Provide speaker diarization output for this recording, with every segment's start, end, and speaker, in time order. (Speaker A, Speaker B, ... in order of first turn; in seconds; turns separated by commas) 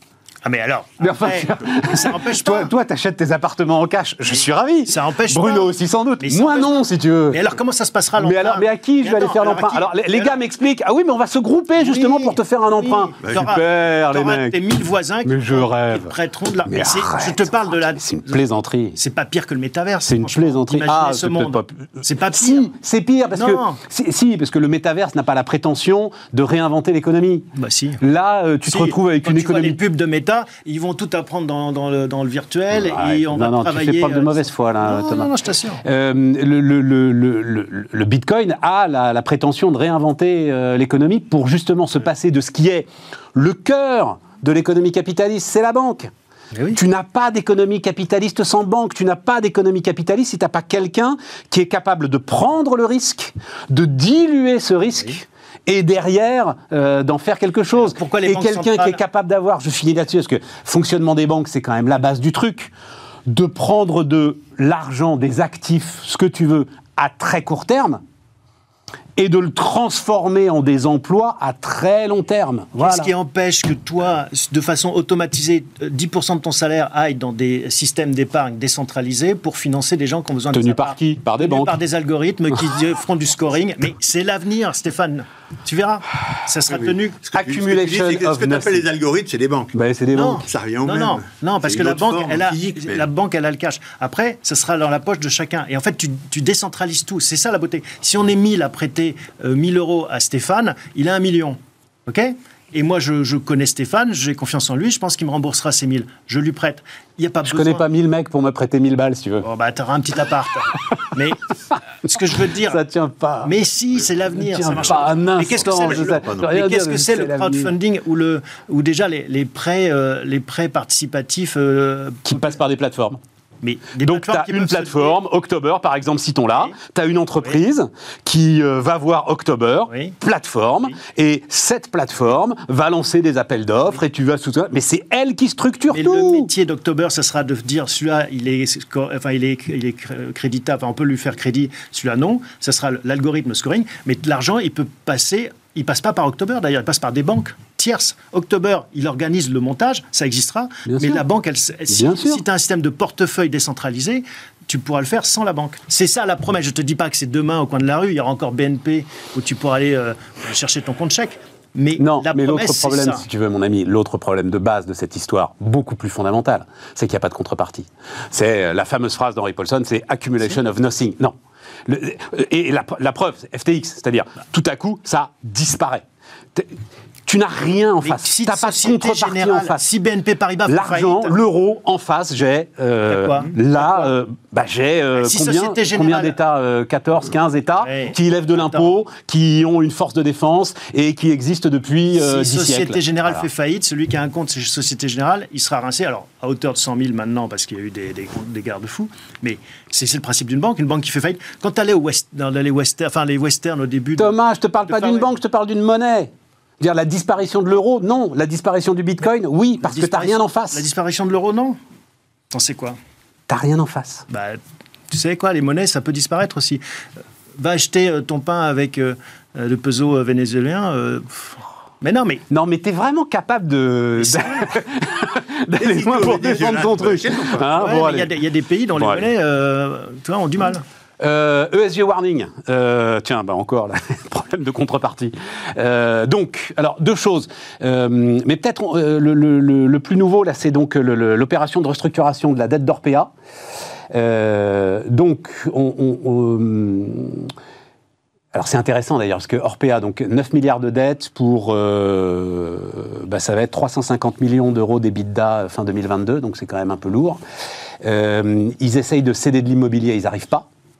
Speaker A: 0.4-2.7, Speaker B: 1.0-7.4, Speaker A: 4.3-6.7, Speaker A: 7.3-10.4, Speaker B: 8.2-14.6, Speaker A: 11.8-18.4, Speaker C: 13.2-13.5, Speaker B: 15.2-16.1, Speaker B: 16.6-19.0, Speaker A: 18.9-22.7, Speaker B: 20.0-27.4, Speaker A: 23.3-23.8, Speaker A: 27.5-28.0, Speaker B: 28.0-29.8, Speaker A: 28.7-35.8, Speaker B: 32.7-35.3, Speaker B: 35.8-46.1, Speaker A: 46.5-46.8, Speaker B: 46.7-62.7, Speaker A: 57.8-59.0, Speaker B: 63.3-68.0, Speaker B: 69.2-73.1, Speaker A: 72.8-87.2, Speaker B: 80.5-81.7, Speaker C: 86.7-89.7, Speaker B: 87.3-88.8, Speaker B: 89.7-90.4, Speaker A: 90.1-107.9, Speaker C: 90.5-93.1, Speaker B: 107.4-109.5, Speaker A: 109.4-111.4, Speaker A: 112.0-112.8, Speaker B: 112.6-113.5, Speaker A: 113.4-122.6, Speaker B: 114.3-117.7, Speaker C: 114.8-116.5, Speaker B: 122.2-123.2, Speaker A: 123.6-125.2, Speaker B: 124.0-136.5, Speaker A: 129.9-130.2, Speaker A: 135.9-163.2, Speaker B: 150.8-151.2, Speaker B: 151.9-152.4, Speaker B: 162.0-171.3, Speaker B: 171.8-176.0, Speaker B: 177.3-179.8, Speaker A: 178.0-181.4, Speaker B: 180.7-193.5, Speaker A: 183.1-184.1, Speaker A: 185.1-186.4, Speaker A: 187.8-189.0, Speaker A: 192.1-204.3, Speaker B: 204.2-210.8, Speaker A: 204.9-205.3, Speaker A: 209.8-211.8, Speaker A: 212.5-213.0, Speaker B: 213.5-214.2, Speaker A: 214.3-216.8, Speaker A: 217.6-222.4, Speaker B: 222.5-228.3, Speaker A: 224.2-224.8, Speaker C: 225.8-227.7, Speaker A: 227.7-230.8, Speaker B: 229.0-229.3, Speaker B: 231.2-243.3, Speaker B: 244.1-247.5, Speaker B: 248.5-257.4, Speaker B: 258.0-260.7